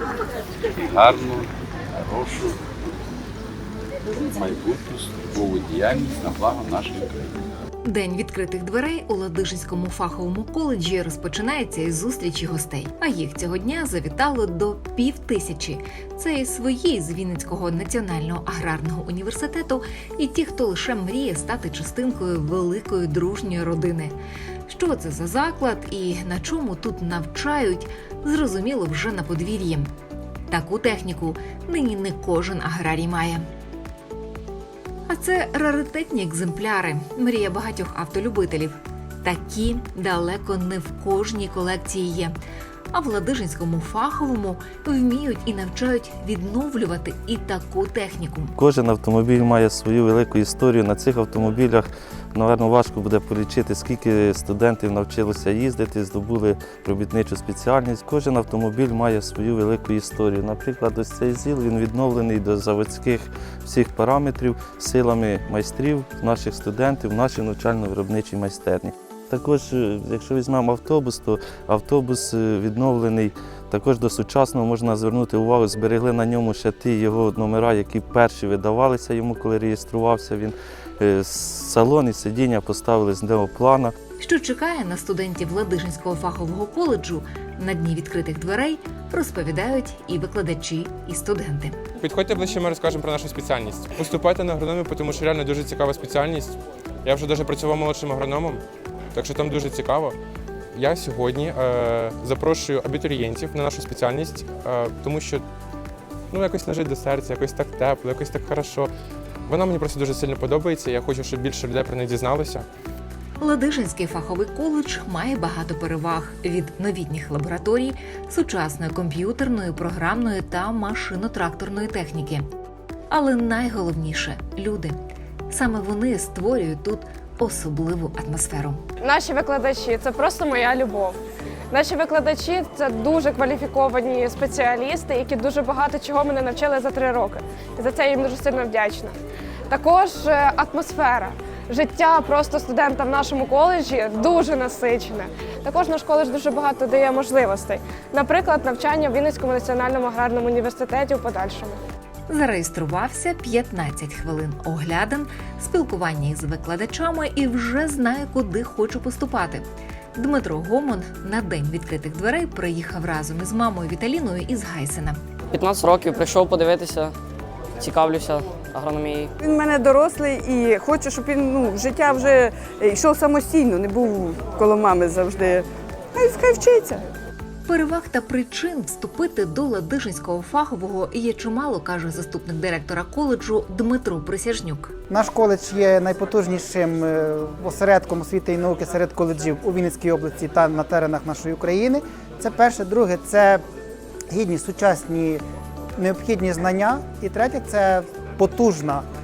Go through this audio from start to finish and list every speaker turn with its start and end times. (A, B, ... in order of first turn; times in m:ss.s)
0:00.9-0:02.6 A
0:04.3-0:07.3 A
0:07.8-0:24.2 B
0:24.7-0:29.9 B
0:30.5-0:33.5 B
0:35.1-0:42.3 B
0:42.9-0:48.6 B
0:48.6-1:23.9 C
1:24.2-1:31.8 B
1:32.0-1:38.6 D
1:39.2-1:40.2 D
1:40.7-1:45.4 D
1:46.3-1:48.9 D
1:49.5-1:52.6 D
1:53.4-2:02.5 B
2:03.1-2:05.0 B
2:05.5-2:08.8 B
2:09.0-2:11.2 E
2:11.7-2:19.1 E
2:19.7-2:31.8 E
2:32.3-2:45.2 B
2:45.5-2:47.1 F
2:47.8-2:49.3 F
2:49.4-2:57.1 G
2:57.7-3:04.9 B
3:05.1-3:13.6 H
3:14.3-3:15.4 H
3:16.0-3:19.0 H